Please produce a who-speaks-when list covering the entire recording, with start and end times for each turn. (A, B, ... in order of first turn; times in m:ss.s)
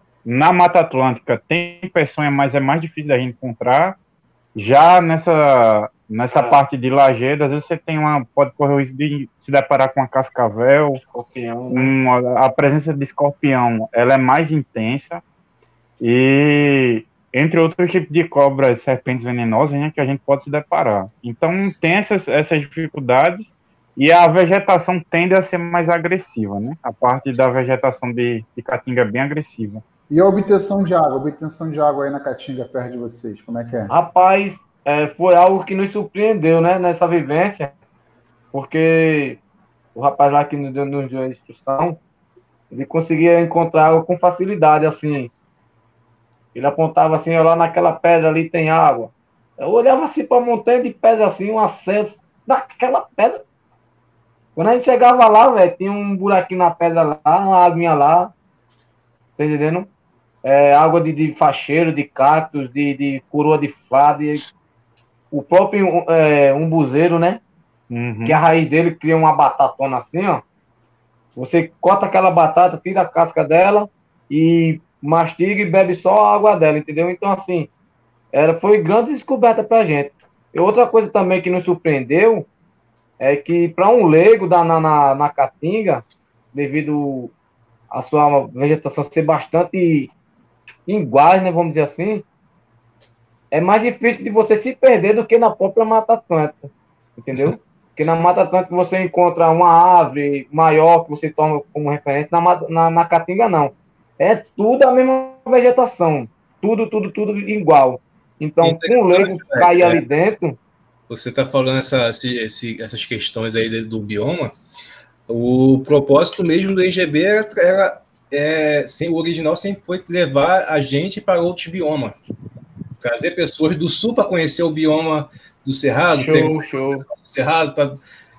0:00.2-0:04.0 A
0:04.6-0:11.0 A
0:06.4-0:06.6 B
0:11.0-0:11.9 B
0:11.7-0:15.2 A
0:16.0-0:29.8 A
0:30.1-0:33.9 C
0:33.9-0:37.7 B
0:38.5-0:39.4 B
0:40.0-0:42.0 B
0:42.7-0:45.3 B
0:46.5-0:53.4 B
0:54.6-0:58.3 B
0:59.4-0:59.9 B
1:00.4-1:04.5 B
1:05.3-1:07.4 B
1:07.9-1:08.4 A
1:08.2-1:10.4 B
1:11.4-1:17.7 B
1:18.3-1:22.5 B
1:23.2-1:27.3 B
1:27.9-1:30.1 B
1:30.9-1:32.2 B
1:33.5-1:50.6 B
1:48.6-1:50.0 D
1:51.1-1:54.5 D
1:55.3-2:02.2 D
2:03.0-2:08.0 D
2:06.1-2:07.1 B